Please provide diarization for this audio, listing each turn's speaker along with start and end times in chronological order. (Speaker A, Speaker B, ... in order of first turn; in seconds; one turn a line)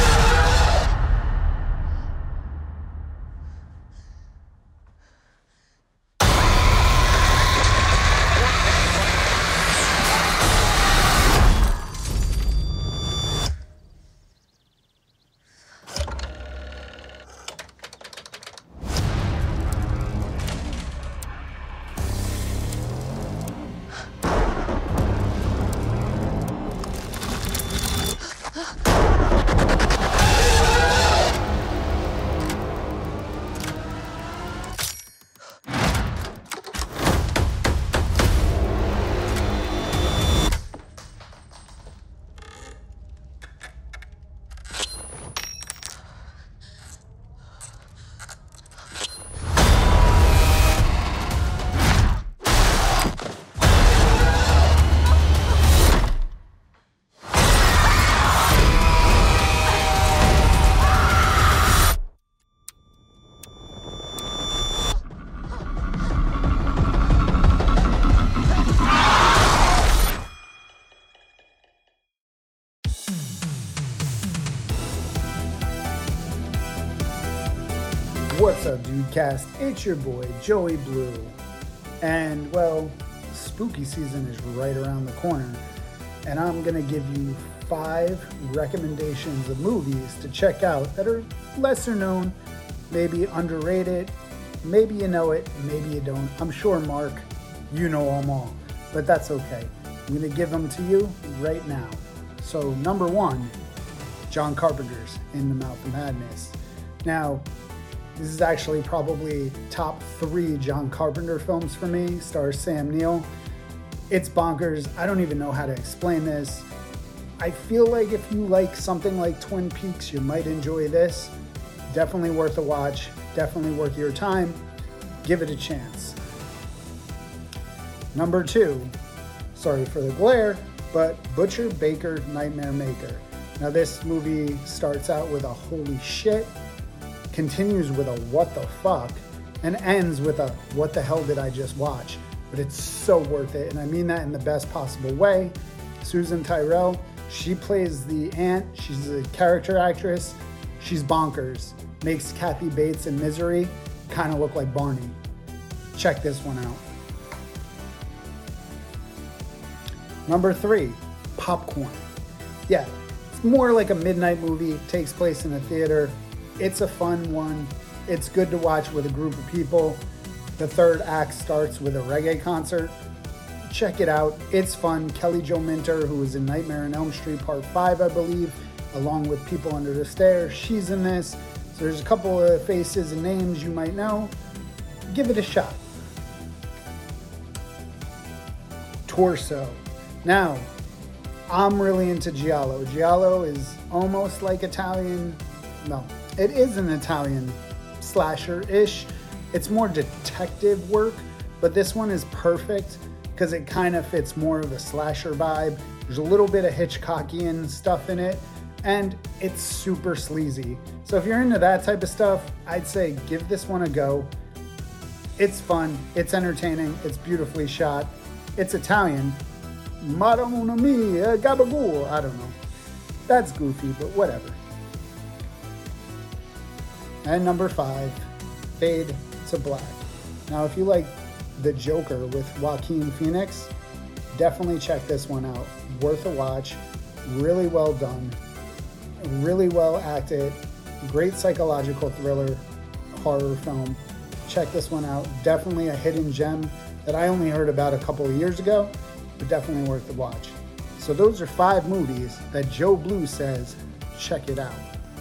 Speaker A: 78.3-81.3
Speaker A: 82.0-85.6
Speaker A: 86.2-92.3
Speaker A: 92.9-103.5
Speaker A: 104.3-107.5
Speaker A: 108.2-113.3
Speaker A: 114.1-116.7
Speaker A: 117.4-121.3
Speaker A: 121.9-124.6
Speaker A: 125.2-126.2
Speaker A: 128.1-128.9
Speaker A: 129.5-136.5
Speaker A: 137.3-155.2
Speaker A: 155.9-156.8
Speaker A: 160.2-162.1
Speaker A: 162.7-170.0
Speaker A: 170.6-173.0
Speaker A: 173.7-184.3
Speaker A: 185.1-185.8
Speaker A: 189.1-190.7
Speaker A: 191.5-214.3
Speaker A: 215.4-219.4
Speaker A: 220.0-222.6
Speaker A: 223.3-224.6
Speaker A: 227.2-228.2
Speaker A: 228.8-233.7
Speaker A: 234.3-238.3
Speaker A: 239.2-254.9